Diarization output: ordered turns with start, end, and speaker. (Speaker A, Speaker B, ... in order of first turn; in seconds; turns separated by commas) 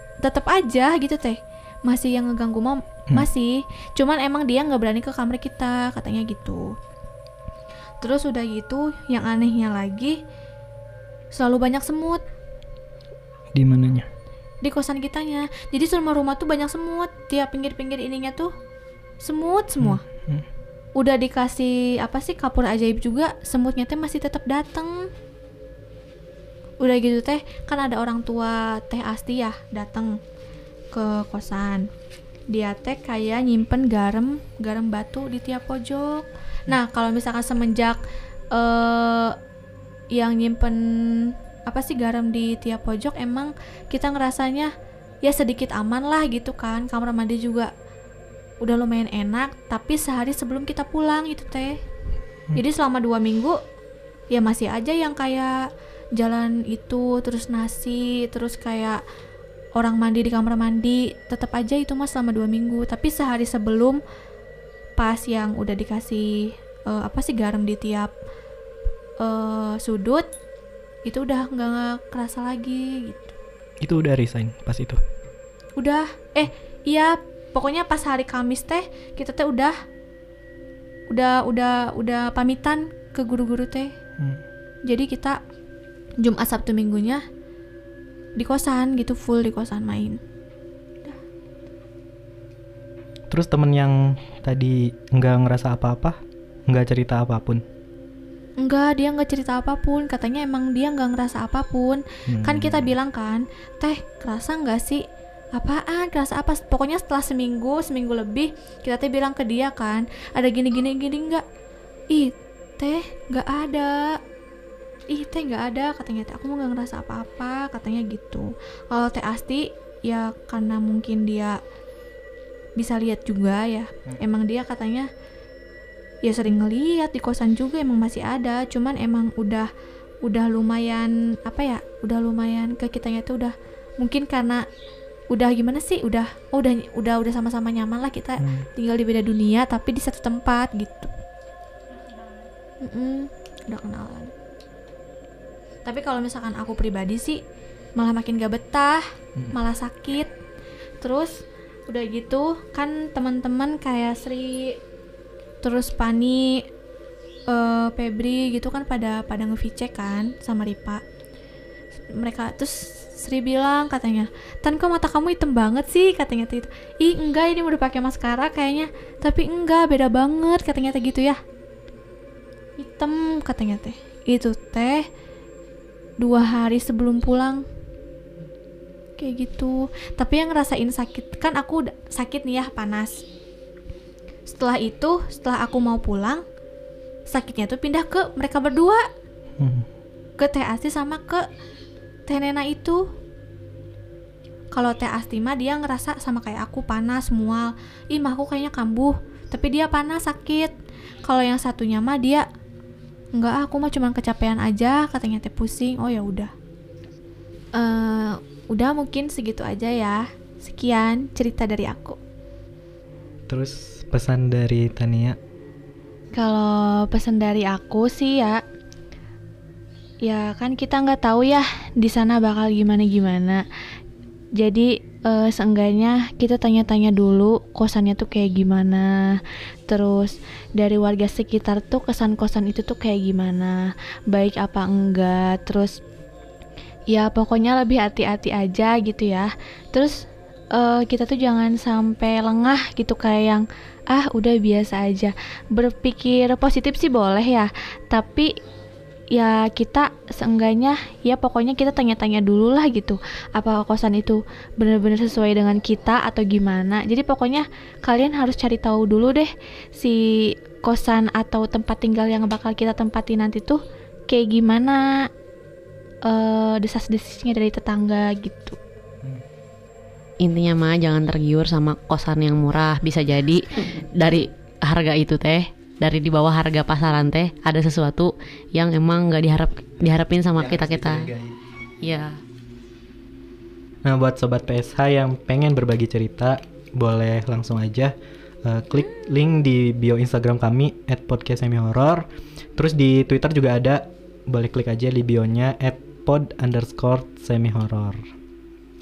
Speaker A: 0.2-6.7, Speaker A: 8.0-10.2, Speaker A: 11.3-12.2, Speaker B: 13.5-14.1, Speaker A: 14.6-18.5, Speaker A: 19.2-20.0, Speaker B: 19.8-20.4, Speaker A: 21.0-25.1, Speaker A: 26.8-30.1, Speaker A: 30.9-31.9, Speaker A: 32.5-38.0, Speaker A: 38.5-39.4, Speaker A: 40.1-44.7, Speaker A: 45.2-47.7, Speaker A: 48.6-51.8, Speaker A: 52.5-53.6, Speaker A: 54.3-55.6, Speaker A: 56.1-59.0, Speaker A: 59.8-64.0, Speaker A: 65.0-68.1, Speaker A: 69.2-70.3, Speaker A: 71.0-73.3, Speaker B: 73.8-75.0, Speaker A: 75.8-79.7, Speaker A: 81.1-83.9, Speaker B: 84.2-84.4, Speaker A: 84.9-85.4, Speaker A: 86.2-87.2, Speaker A: 88.4-90.2, Speaker B: 93.3-97.6, Speaker A: 98.6-111.4, Speaker B: 102.3-102.9, Speaker A: 112.1-114.2, Speaker A: 115.1-121.6, Speaker A: 122.8-125.1, Speaker A: 126.2-129.7, Speaker A: 130.2-134.6, Speaker A: 135.3-141.1, Speaker B: 138.4-138.7, Speaker A: 142.8-144.3, Speaker A: 145.8-147.4, Speaker A: 148.0-150.3, Speaker A: 151.0-154.8, Speaker A: 155.6-156.6, Speaker A: 157.5-161.0, Speaker A: 162.1-171.4, Speaker A: 172.8-175.1, Speaker A: 176.2-177.6, Speaker A: 179.2-183.2, Speaker A: 184.5-186.4, Speaker A: 187.3-189.0, Speaker B: 189.6-189.9, Speaker A: 190.4-191.4, Speaker A: 192.3-193.1, Speaker A: 194.7-200.7, Speaker A: 201.2-202.4, Speaker A: 203.3-206.5, Speaker A: 207.8-212.2, Speaker B: 213.5-215.4, Speaker A: 216.3-218.6, Speaker A: 220.2-223.6, Speaker A: 224.6-236.0, Speaker A: 237.1-248.5, Speaker A: 249.3-265.3, Speaker A: 266.3-268.8, Speaker C: 270.4-281.3, Speaker B: 280.6-281.6, Speaker C: 282.0-282.4, Speaker B: 284.0-292.2, Speaker B: 292.8-298.2